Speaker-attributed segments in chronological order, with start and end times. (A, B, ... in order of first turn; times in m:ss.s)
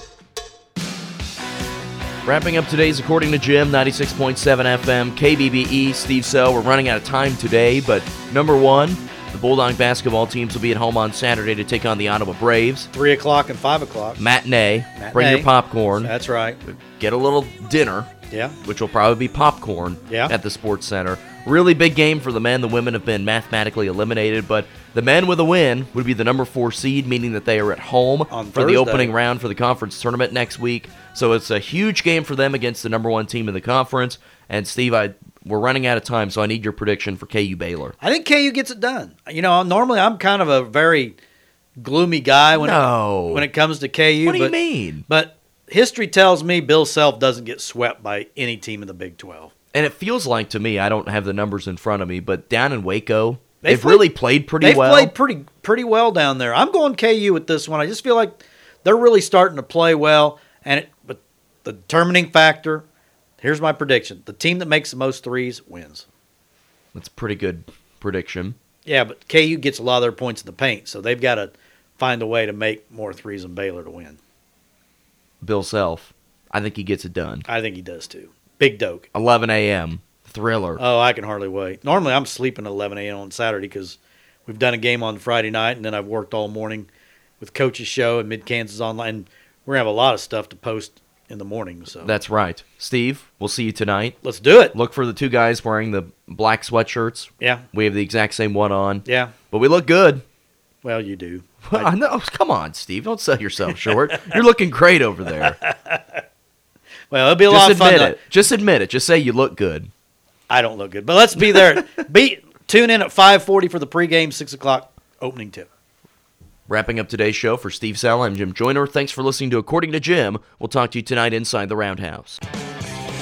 0:02.2-0:12.9 A
0:12.9-0:14.2 B
0:14.2-0:16.1 A
0:15.0-0:15.5 B
0:16.0-0:16.6 B
0:16.6-0:18.1 A
0:18.3-0:18.6 B
0:18.6-0:37.9 A
0:20.1-0:20.3 B
0:28.3-0:29.1 B
0:38.0-0:41.2 B
0:41.8-0:44.5 B
0:42.5-0:43.4 A
0:44.2-0:45.0 A
0:45.1-0:49.5 B
0:49.7-0:55.1 A
0:53.6-0:54.0 B
0:54.6-1:02.8 B
1:03.4-1:06.0 B
1:06.9-1:08.6 A
1:08.8-1:14.2 B
1:15.4-1:17.4 A
1:17.5-1:19.0 B
1:19.1-1:20.8 A
1:20.8-1:26.9 B
1:27.4-1:32.1 B
1:32.0-1:34.2 A
1:34.2-1:34.7 B
1:34.7-1:40.2 A
1:39.0-1:39.3 B
1:40.8-1:41.9 B
1:41.6-1:45.6 A
1:43.9-1:44.4 B
1:45.4-1:46.2 B
1:47.1-1:48.2 B
1:47.5-1:49.9 A
1:50.5-1:55.6 B
1:51.4-1:51.8 A
1:56.7-2:02.4 A